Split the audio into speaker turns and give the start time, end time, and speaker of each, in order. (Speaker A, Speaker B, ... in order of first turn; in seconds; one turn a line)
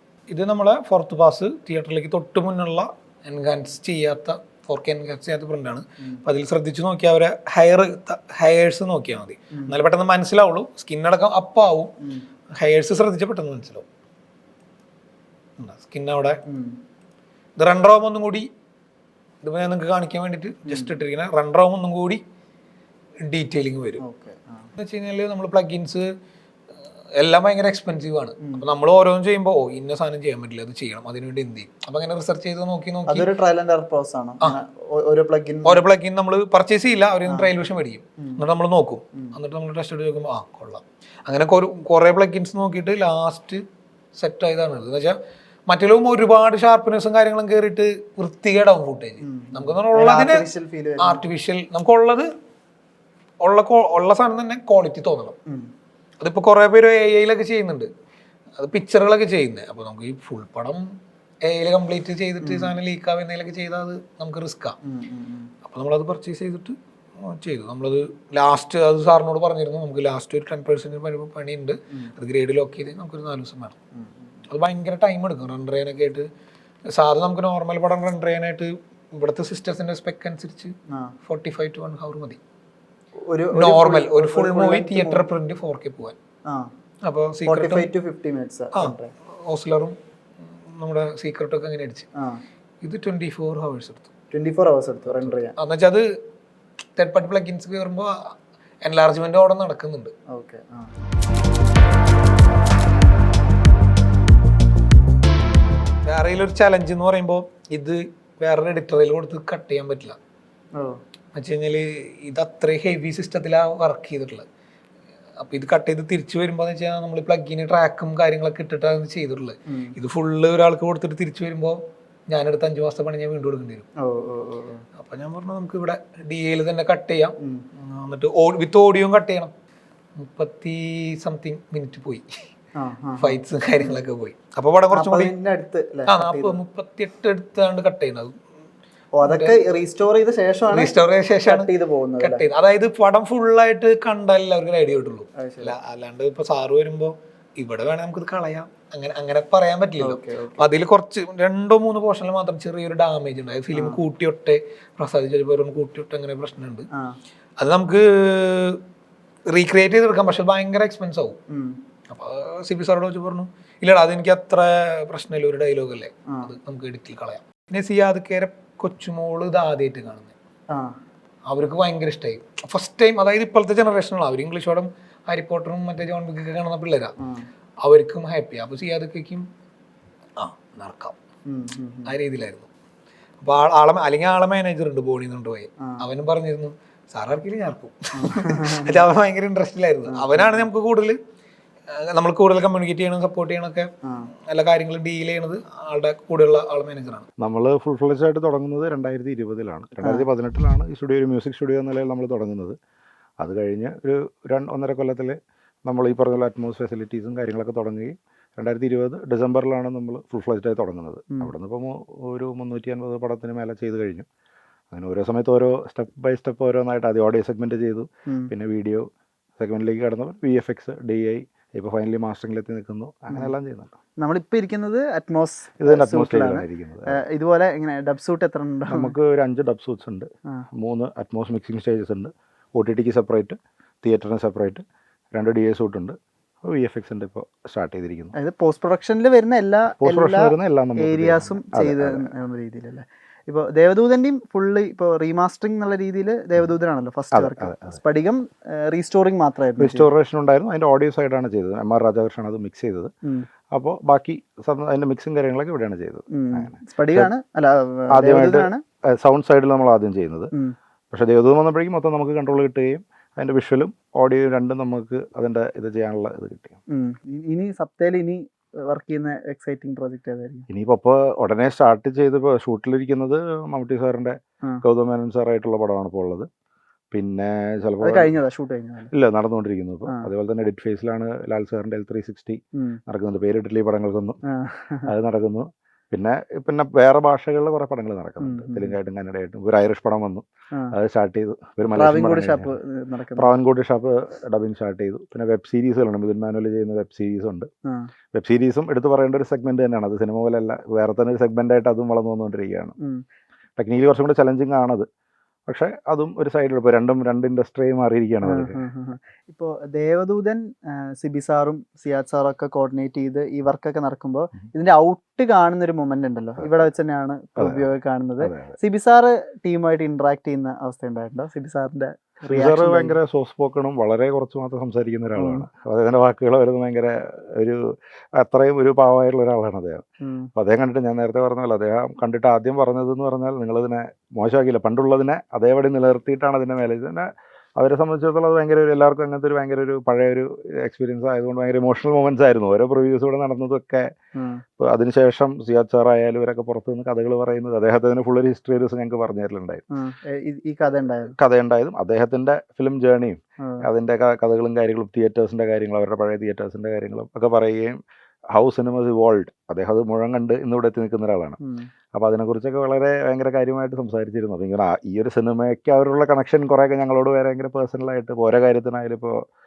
Speaker A: 0.3-11.9
Speaker A: 12.6-13.8
Speaker A: 15.6-16.4
Speaker B: 16.5-16.8
Speaker A: 17.6-18.5
Speaker A: 19.4-22.2
Speaker B: 20.7-20.9
Speaker A: 23.2-24.0
Speaker B: 24.0-24.7
Speaker A: 24.8-26.1
Speaker A: 27.2-33.3
Speaker B: 33.1-35.8
Speaker A: 35.6-43.6
Speaker A: 44.1-45.2
Speaker A: 45.7-50.5
Speaker B: 49.2-51.2
Speaker A: 51.0-52.3
Speaker A: 53.4-55.4
Speaker A: 56.2-57.9
Speaker A: 58.6-60.9
Speaker A: 61.4-64.8
Speaker B: 62.4-62.7
Speaker B: 64.8-65.5
Speaker A: 65.6-73.8
Speaker B: 73.9-74.4
Speaker A: 74.5-76.3
Speaker A: 76.9-80.7
Speaker B: 80.9-81.1
Speaker A: 81.2-82.4
Speaker B: 83.3-85.3
Speaker A: 83.5-86.2
Speaker B: 86.5-86.7
Speaker A: 87.0-87.9
Speaker B: 87.4-89.1
Speaker A: 88.8-90.0
Speaker A: 90.7-92.1
Speaker A: 92.8-94.1
Speaker B: 94.3-95.5
Speaker A: 95.1-96.1
Speaker A: 97.0-100.1
Speaker B: 100.3-100.9
Speaker A: 106.0-110.2
Speaker A: 111.3-114.4
Speaker A: 115.4-121.8
Speaker B: 119.7-119.9
Speaker A: 122.3-123.9
Speaker B: 124.0-124.8
Speaker A: 125.0-129.5
Speaker A: 130.2-132.2
Speaker B: 132.8-134.0
Speaker A: 133.2-135.3
Speaker B: 134.9-136.6
Speaker A: 136.1-138.3
Speaker B: 139.2-140.9
Speaker A: 139.2-139.6
Speaker A: 140.7-156.9
Speaker B: 141.5-142.4
Speaker B: 145.4-145.8
Speaker B: 150.0-150.6
Speaker A: 157.6-158.8
Speaker A: 159.5-161.4
Speaker B: 161.5-161.8
Speaker A: 162.1-170.3
Speaker B: 170.7-170.9
Speaker A: 171.5-177.2
Speaker B: 177.2-177.4
Speaker A: 177.8-179.4
Speaker A: 180.4-181.2
Speaker B: 181.5-182.1
Speaker A: 182.1-182.7
Speaker A: 183.4-191.2
Speaker B: 188.2-189.0
Speaker B: 190.1-190.7
Speaker A: 191.9-193.9
Speaker B: 194.0-194.3
Speaker A: 194.5-197.3
Speaker C: 197.4-202.8
Speaker C: 203.4-214.3
Speaker C: 214.9-219.1
Speaker C: 219.6-224.0
Speaker B: 224.2-229.1
Speaker C: 225.8-227.2
Speaker C: 228.9-234.8
Speaker C: 235.3-238.3
Speaker B: 238.4-250.1
Speaker C: 240.0-242.3
Speaker C: 247.3-248.0
Speaker C: 249.8-253.1
Speaker C: 253.7-257.3
Speaker B: 256.3-258.8
Speaker C: 258.1-260.5
Speaker C: 261.1-266.8
Speaker B: 266.9-270.6
Speaker C: 270.7-276.5
Speaker C: 277.1-278.3
Speaker B: 278.0-279.1
Speaker C: 279.1-284.4
Speaker B: 284.5-285.1
Speaker C: 285.1-292.7
Speaker B: 288.4-288.9
Speaker B: 291.9-293.6
Speaker C: 293.4-297.7
Speaker B: 297.9-298.1
Speaker C: 298.3-302.9
Speaker C: 303.8-305.1
Speaker C: 305.7-308.8
Speaker B: 308.4-323.1
Speaker C: 316.6-316.9
Speaker C: 317.6-318.8
Speaker C: 322.5-327.8
Speaker B: 325.4-325.6
Speaker C: 328.4-330.0
Speaker B: 330.2-330.5
Speaker C: 330.6-344.1
Speaker B: 344.4-344.6
Speaker C: 344.8-349.8
Speaker B: 349.9-351.3
Speaker C: 351.3-358.0
Speaker B: 353.6-353.9
Speaker C: 358.5-361.6
Speaker B: 361.6-361.9
Speaker C: 362.1-369.4